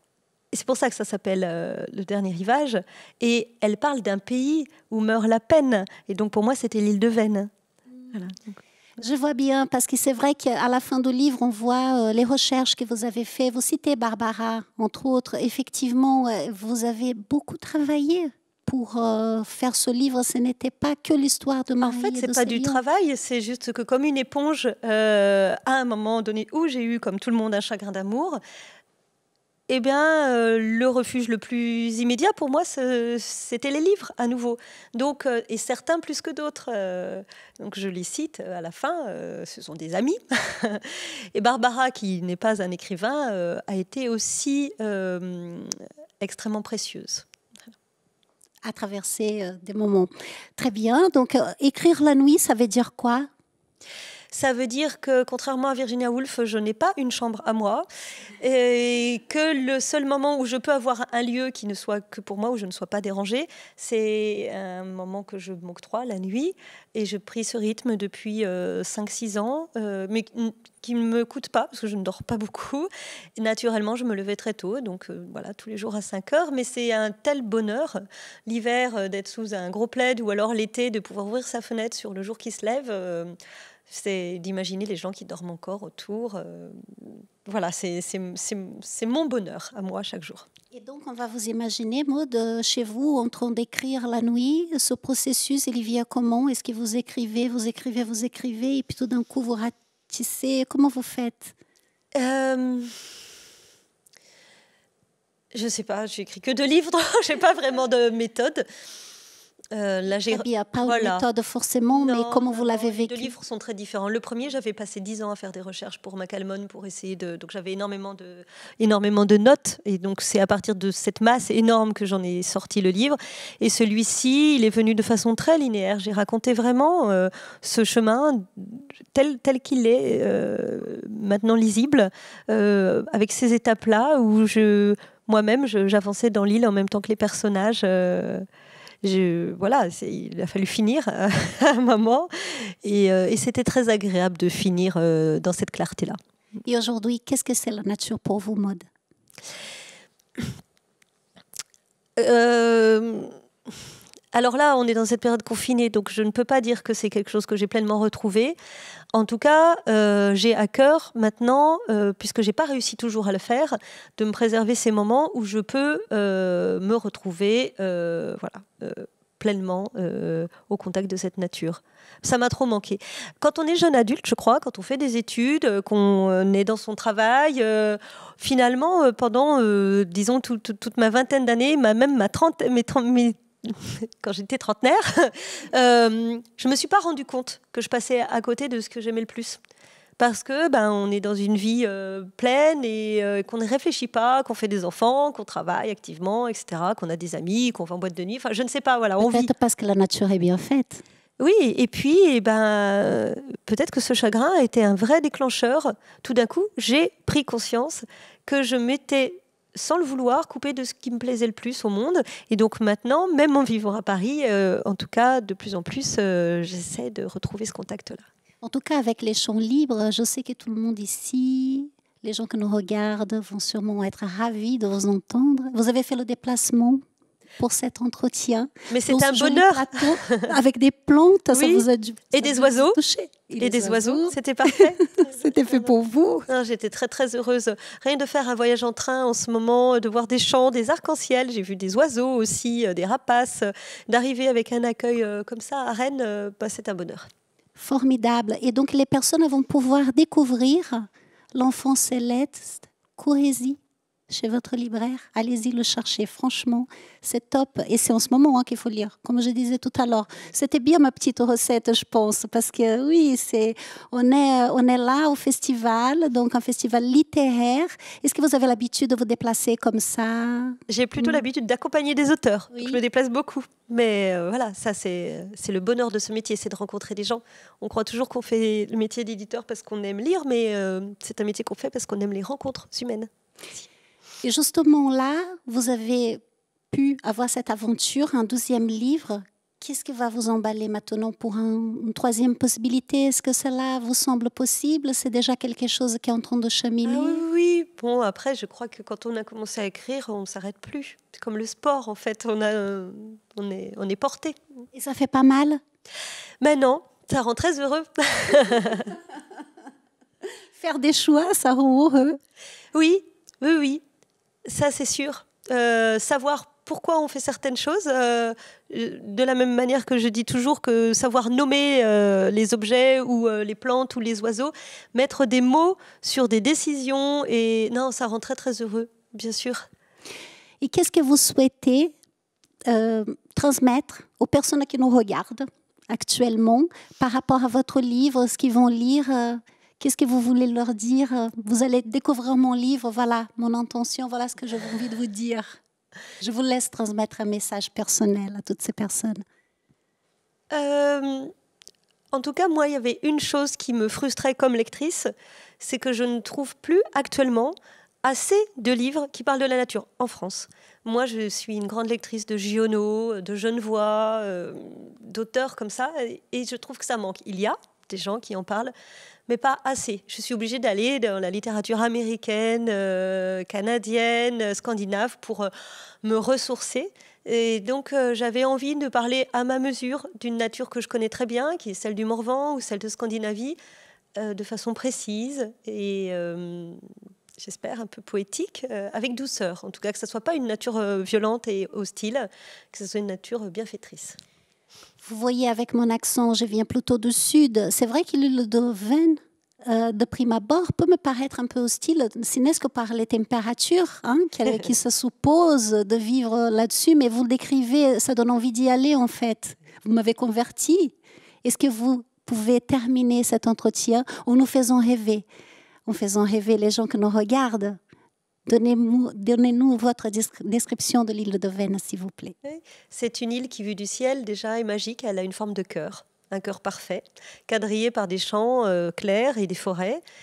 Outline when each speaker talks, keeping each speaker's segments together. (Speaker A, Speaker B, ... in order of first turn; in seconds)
Speaker A: 0.5-7.5, 8.1-8.6, 21.8-28.4, 29.7-47.3, 54.3-57.9, 58.4-83.3, 83.9-90.5, 102.2-103.0, 105.5-108.7, 109.7-111.2, 111.9-138.5, 139.0-146.2, 152.2-153.3, 154.3-158.6, 159.1-189.6, 190.2-199.5, 201.4-218.2, 228.9-230.4, 231.5-233.0, 233.6-235.9, 236.5-247.3, 270.9-283.8, 297.1-304.6, 306.6-309.2, 312.9-314.0, 314.7-329.9, 350.7-351.5, 352.3-368.9, 369.5-375.7, 376.2-383.8, 384.4-387.1, 387.6-394.4, 422.6-430.2
Speaker B: 9.0-22.8, 48.6-53.3, 90.7-101.5, 110.3-113.3, 146.7-148.9, 199.2-201.0, 218.6-227.0, 227.6-236.5, 247.8-271.4, 272.7-273.0, 284.4-297.4, 304.9-305.8, 310.8-312.4, 330.8-332.1, 332.9-345.8, 346.4-349.4, 395.2-415.4, 416.1-418.0, 418.7-422.6